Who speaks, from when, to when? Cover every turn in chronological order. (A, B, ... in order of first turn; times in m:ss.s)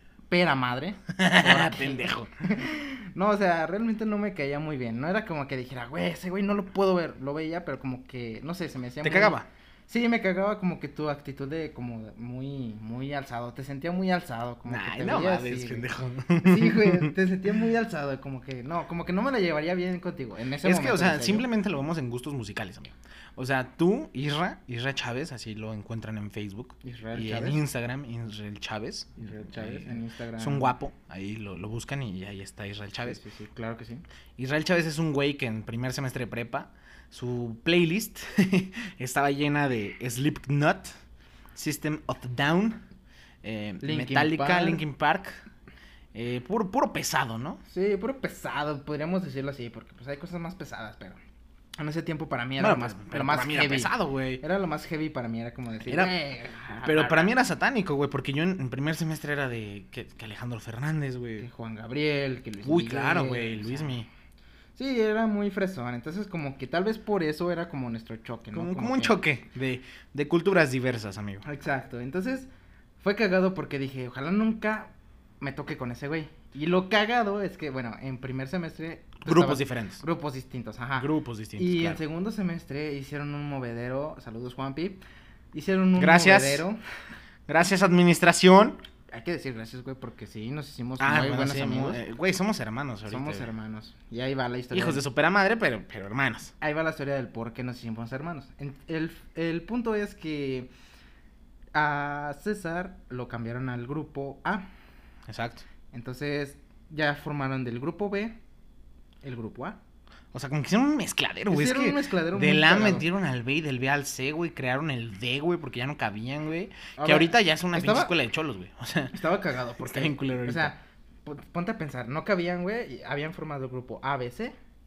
0:00.3-0:15.9 A
0:01.1-0:02.3 B
0:09.0-0:09.5 B
0:14.6-0:17.1 B
0:16.4-0:21.5 A
0:20.6-0:33.2 B
0:26.8-0:27.6 A
0:29.2-0:30.7 A
0:33.0-0:34.0 A
0:34.4-0:40.9 B
0:41.6-0:42.8 B
0:43.4-0:45.4 B
0:43.8-0:44.8 A
0:46.1-0:47.6 B
0:47.7-0:51.2 A
0:51.8-0:57.3 A
0:52.6-0:54.4 B
0:55.9-0:56.1 B
0:56.8-1:01.4 B
1:01.4-1:04.0 A
1:02.6-1:04.1 B
1:04.8-1:09.2 A
1:08.5-1:11.4 B
1:11.4-1:12.5 A
1:13.0-1:25.0 A
1:19.2-1:20.0 B
1:21.0-1:22.0 B
1:25.5-1:26.8 A
1:26.0-1:26.6 B
1:27.5-1:28.8 B
1:29.1-1:32.0 A
1:31.0-1:33.5 B
1:33.1-1:35.0 A
1:34.7-1:36.5 B
1:36.6-1:40.7 A
1:41.7-1:44.7 A
1:45.3-1:45.6 B
1:45.9-1:48.4 A
1:49.2-1:49.8 A
1:50.3-1:59.2 B
1:51.5-1:53.1 A
1:57.0-1:58.1 A
1:59.1-2:04.6 A
1:59.8-2:00.7 B